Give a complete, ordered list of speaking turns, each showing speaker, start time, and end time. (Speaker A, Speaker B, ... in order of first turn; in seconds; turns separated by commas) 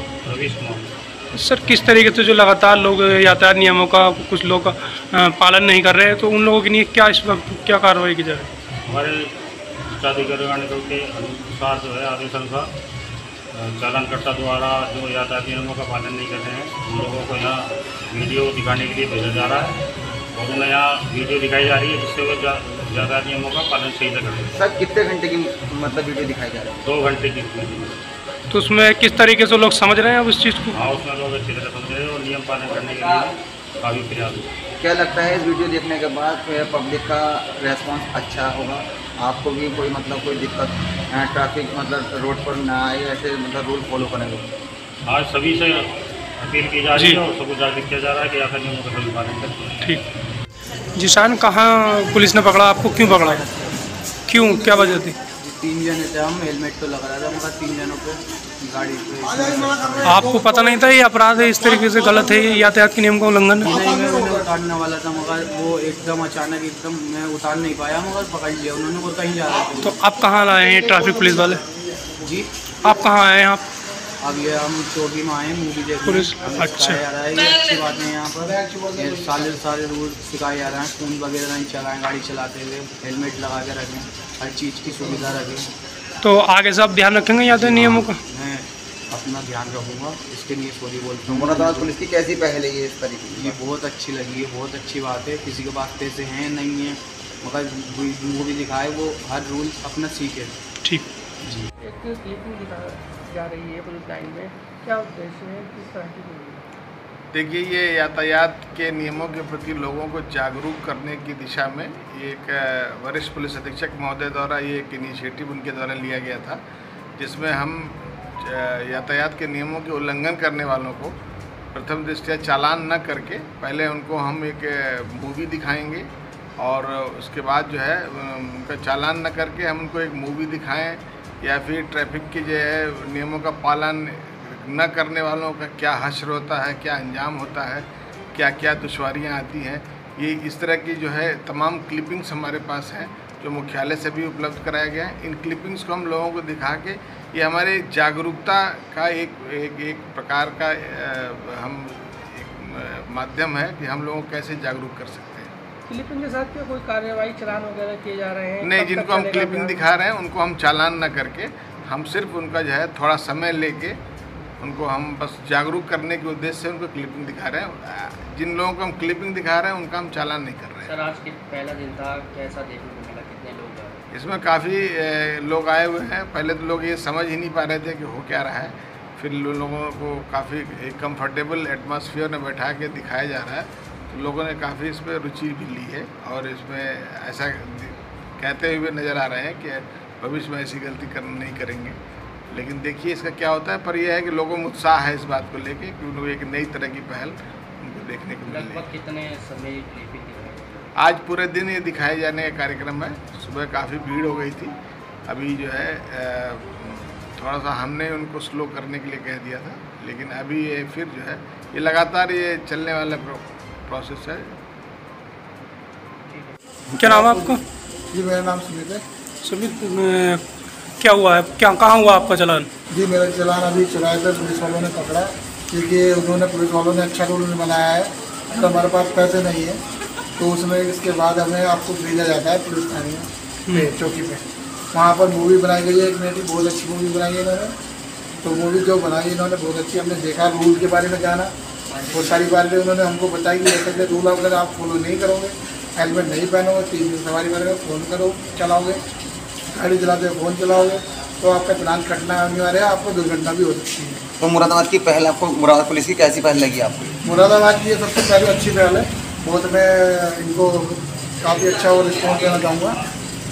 Speaker A: 0.2-0.9, Speaker B: 1.4-8.5, Speaker A: 8.9-9.3, Speaker A: 9.9-12.7, Speaker A: 13.5-19.8, Speaker A: 20.3-24.5, Speaker C: 24.5-27.0, Speaker A: 26.8-28.0, Speaker B: 28.5-30.8, Speaker A: 30.7-34.5, Speaker C: 34.8-44.5, Speaker A: 45.1-45.9, Speaker A: 46.4-49.8, Speaker B: 46.9-47.2, Speaker B: 51.0-53.4, Speaker C: 53.0-53.9, Speaker B: 54.3-55.2, Speaker D: 55.4-60.3, Speaker E: 59.2-62.8, Speaker B: 60.0-63.7, Speaker D: 63.6-70.0, Speaker E: 63.6-64.5, Speaker B: 69.8-71.6, Speaker E: 70.3-72.2, Speaker D: 72.2-72.5, Speaker B: 72.8-73.6, Speaker D: 74.2-85.7, Speaker B: 76.1-77.0, Speaker E: 78.4-79.6, Speaker B: 86.2-88.2, Speaker D: 87.5-92.0, Speaker C: 91.3-93.6, Speaker D: 93.3-100.6, Speaker F: 101.8-106.6, Speaker G: 107.3-116.6, Speaker G: 117.2-121.2, Speaker G: 121.7-155.5, Speaker F: 155.9-159.9, Speaker G: 158.6-164.0, Speaker G: 164.6-171.0, Speaker H: 170.8-174.0, Speaker G: 174.1-192.0, Speaker G: 192.5-198.9, Speaker H: 198.5-200.9, Speaker G: 201.0-204.8, Speaker G: 205.3-214.5, Speaker B: 217.0-217.6, Speaker E: 217.0-217.6, Speaker E: 218.1-219.0, Speaker B: 219.4-220.4, Speaker B: 221.0-222.7, Speaker E: 222.9-229.8, Speaker E: 230.4-237.7, Speaker E: 238.4-241.5, Speaker E: 242.0-249.0, Speaker E: 249.7-254.3, Speaker C: 254.4-257.2, Speaker E: 257.2-263.0